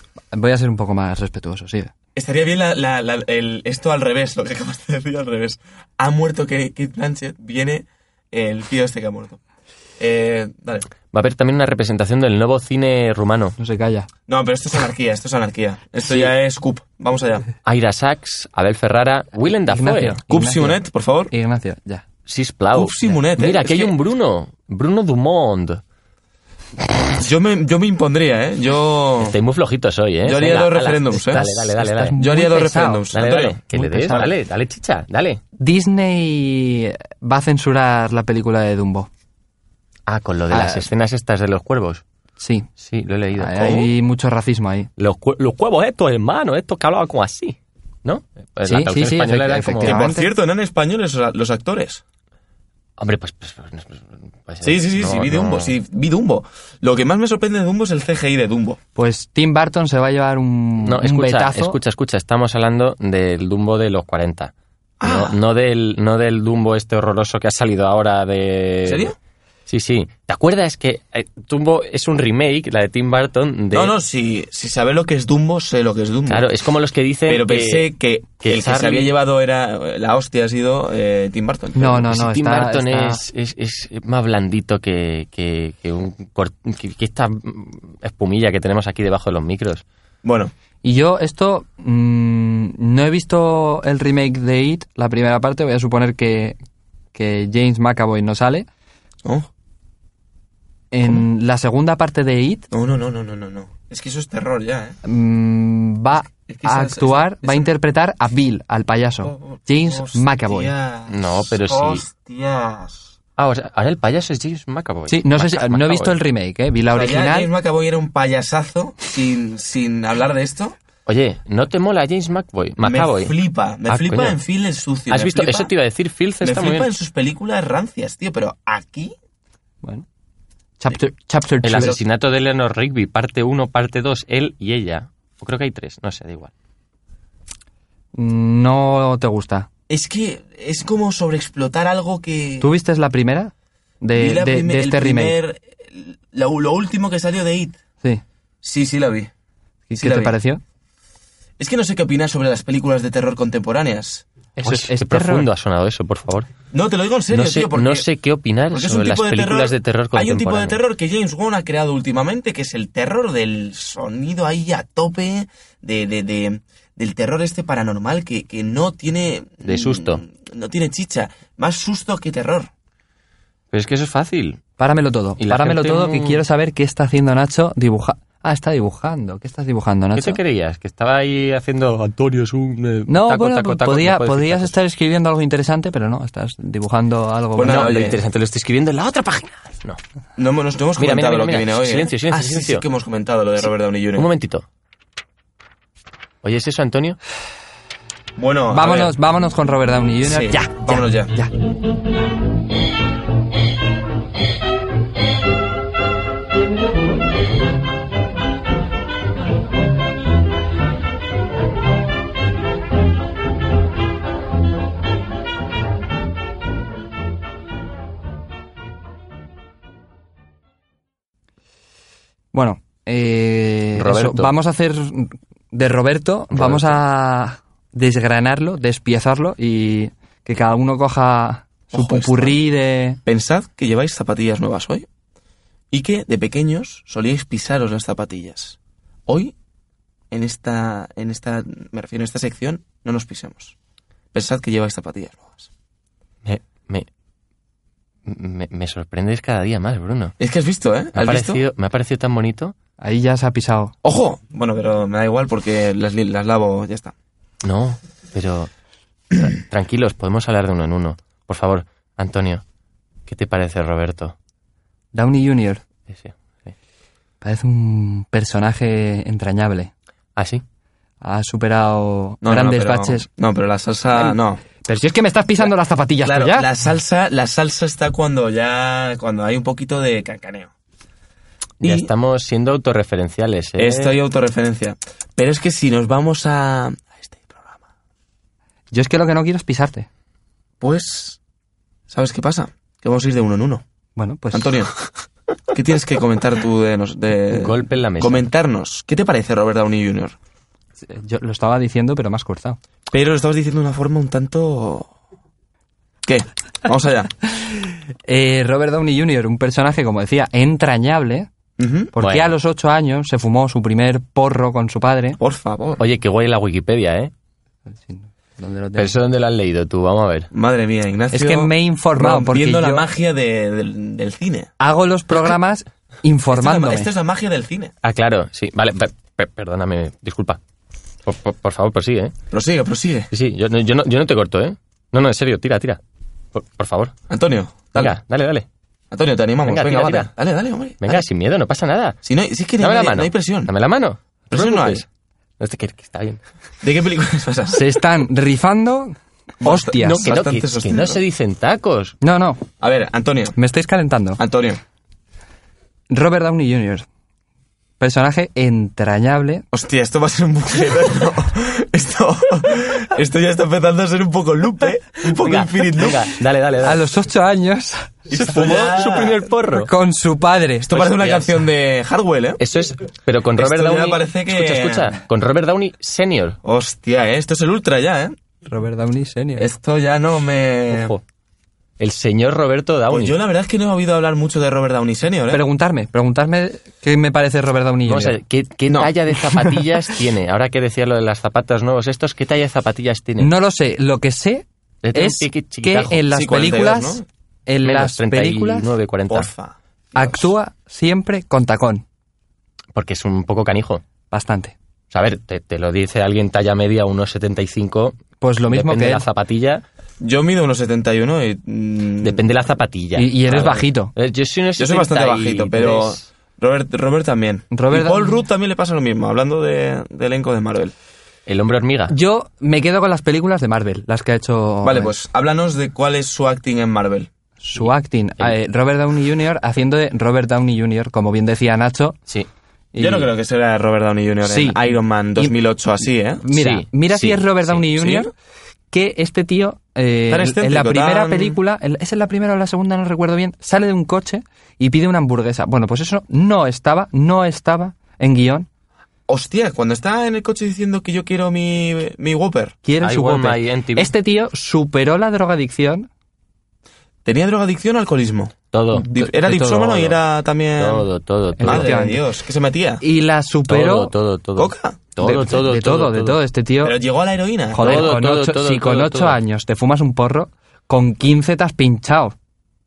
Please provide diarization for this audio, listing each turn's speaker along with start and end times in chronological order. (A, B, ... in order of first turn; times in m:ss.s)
0:00.3-0:01.9 A
0:02.1-0:09.4 B
0:10.0-0:10.9 B
0:11.1-0:13.6 C
0:13.6-0:14.1 A
0:14.3-0:17.5 B
0:16.0-0:16.3 C
0:17.6-0:20.2 C
0:19.7-0:22.0 A
0:20.3-0:21.3 B
0:22.3-0:25.8 C
0:22.7-0:23.9 B
0:27.2-0:29.3 B
0:29.2-0:32.2 C
0:30.2-0:31.5 B
0:31.1-0:33.0 A
0:32.2-0:34.3 B
0:33.1-0:35.4 C
0:33.7-0:34.3 A
0:35.6-0:39.1 A
0:40.1-0:42.0 C
0:40.5-0:40.9 A
0:42.4-0:42.7 A
0:42.8-0:43.9 C
0:43.4-0:44.9 A
0:45.0-0:50.1 C
0:48.6-0:50.3 A
0:49.8-0:52.0 B
0:53.0-0:55.7 C
0:54.6-0:58.8 B
0:59.0-1:01.8 A
1:00.8-1:04.5 C
1:05.0-1:05.4 B
1:05.0-1:09.1 C
1:08.8-1:09.2 B
1:09.7-1:13.9 C
1:13.7-1:16.5 B
1:16.3-1:17.9 C
1:17.2-1:22.0 B
1:18.4-1:19.1 C
1:21.8-1:23.2 A
1:21.9-1:29.8 C
1:30.2-1:30.5 B
1:30.8-1:36.6 A
1:37.1-1:38.6 A
1:40.9-1:42.7 A
1:42.7-1:45.0 B
1:45.0-1:50.7 A
1:46.5-1:47.7 B
1:49.2-1:53.1 B
1:51.1-1:52.0 C
1:53.4-1:56.2 C
1:55.1-1:57.5 A
1:56.9-2:00.8 B
2:01.0-2:03.4 C
2:02.8-2:05.7 B
2:03.9-2:04.4 C
2:05.1-2:06.9 C
2:06.4-2:09.1 B
2:10.8-2:12.0 A
2:11.6-2:16.5 C
2:11.7-2:12.0 B
2:18.1-2:19.7 A
2:19.9-2:22.7 B
2:22.6-2:25.4 A
2:24.2-2:27.8 B
2:28.6-2:29.3 B
2:29.9-2:30.6 A
2:30.0-2:30.3 B
2:31.6-2:34.2 B
2:34.6-2:35.5 A
2:34.6-2:36.5 C
2:36.7-2:38.1 B
2:37.3-2:40.8 C
2:38.7-2:52.7 B
2:49.6-2:50.2 C
2:53.7-2:54.6 C
2:54.8-3:00.4 A
2:55.4-2:56.4 C
3:00.2-3:04.7 C
3:03.1-3:08.0 A
3:07.5-3:08.2 B
3:07.6-3:10.0 C
3:10.4-3:14.3 B
3:11.0-3:12.8 C
3:13.6-3:14.6 C
3:16.4-3:17.2 C
3:18.4-3:19.1 B
3:18.7-3:21.5 A
3:20.2-3:21.3 B
3:42.5-3:53.2 A
3:44.0-3:44.5 C
3:46.5-3:47.0 C
3:51.9-3:52.6 B
3:53.2-3:55.1 B
3:55.9-3:59.5 B
4:00.3-4:03.7 B
4:04.3-4:05.7 B
4:06.4-4:07.1 C
4:08.2-4:10.3 C
4:10.4-4:11.6 B
4:11.1-4:12.7 C
4:13.0-4:13.9 A
4:14.0-4:17.1 B
4:17.6-4:18.7 C
4:19.3-4:22.6 C
4:23.3-4:24.3 C
4:25.1-4:25.8 A
4:26.1-4:26.7 C
4:27.4-4:29.9 A
4:30.4-4:30.6 C
4:31.2-4:33.3 A
4:32.4-4:34.6 B
4:34.1-4:36.7 A
4:36.2-4:40.7 B
4:41.8-4:42.1 B
4:41.8-4:44.2 C
4:43.8-4:47.8 B
4:48.9-4:50.1 A
4:50.8-4:51.4 B
4:52.1-4:53.8 B
4:54.2-4:54.8 A
4:54.5-4:54.9 B
4:55.7-5:00.4 B
4:57.5-4:58.4 C
5:01.0-5:02.8 A
5:03.1-5:05.1 B
5:06.2-5:07.3 B
5:07.8-5:11.5 A
5:11.8-5:12.1 B
5:12.1-5:15.4 A
5:12.2-5:12.5 C
5:15.4-5:16.0 B
5:16.0-5:17.3 C
5:18.0-5:19.2 A
5:19.0-5:20.5 C
5:20.5-5:24.7 B
5:21.3-5:23.1 A
5:24.8-5:27.1 A
5:26.5-5:27.9 B
5:28.0-5:30.6 C
5:31.2-5:32.3 C
5:32.5-5:33.3 B
5:33.3-5:36.0 C
5:36.5-5:37.1 C
5:37.3-5:38.1 B
5:37.9-5:38.6 C
5:39.1-5:41.2 B
5:39.6-5:40.3 C
5:41.0-5:42.2 C
5:42.2-5:43.7 B
5:42.8-5:45.0 C
5:44.5-5:45.0 B
5:45.6-5:46.4 C
5:46.8-5:47.8 B
5:47.7-5:50.2 A
5:49.6-5:51.2 B
5:50.0-5:52.2 C
5:52.2-5:52.6 A
5:52.8-5:53.6 B
5:53.6-5:54.4 A
5:54.4-5:54.8 B
5:56.1-5:57.0 A
5:58.0-5:59.6 A
5:59.7-6:06.3 B
6:05.4-6:07.1 C
6:06.8-6:08.2 A
6:08.3-6:09.4 B
6:08.3-6:09.9 C
6:09.7-6:10.9 A
6:10.8-6:12.6 B
6:10.9-6:11.6 C
6:12.6-6:16.6 C
6:13.6-6:15.2 B
6:16.6-6:18.3 B
6:18.6-6:19.7 A
6:19.6-6:21.1 B
6:20.9-6:21.2 C
6:22.0-6:23.3 C
6:23.1-6:25.6 B
6:25.5-6:28.4 A
6:28.1-6:33.5 C
6:29.3-6:30.2 A
6:33.4-6:38.9 A
6:35.0-6:36.2 C
6:36.3-6:37.2 B
6:37.8-6:39.5 C
6:39.3-6:40.5 B
6:40.1-6:42.0 A
6:42.9-6:44.0 C
6:44.3-6:44.7 A
6:45.1-6:48.2 C
6:48.4-6:49.3 A
6:48.7-6:49.8 C
6:50.2-6:52.4 B
6:52.2-6:56.2 C
6:53.2-6:54.1 A
6:54.8-7:00.9 B
6:57.7-6:58.4 A
7:01.4-7:02.1 C
7:02.1-7:05.1 A
7:04.8-7:07.3 B
7:07.6-7:12.2 A
7:12.9-7:13.3 A
7:13.0-7:16.4 B
7:14.4-7:15.5 A
7:16.4-7:18.3 A
7:16.5-7:17.9 C
7:18.0-7:18.3 B
7:18.9-7:28.7 A
7:20.3-7:21.6 B
7:29.3-7:32.8 B
7:32.8-7:36.1 A
7:33.0-7:34.1 C
7:37.2-7:41.1 B
7:38.7-7:40.2 C
7:38.9-7:40.0 A
7:40.8-7:41.9 C
7:41.6-7:42.2 A
7:41.6-7:43.0 B
7:43.0-7:44.1 A
7:43.7-7:46.4 C
7:44.6-7:45.1 B
7:45.2-7:47.0 A
7:46.8-7:48.1 B
7:47.7-7:52.3 A
7:47.8-7:49.4 C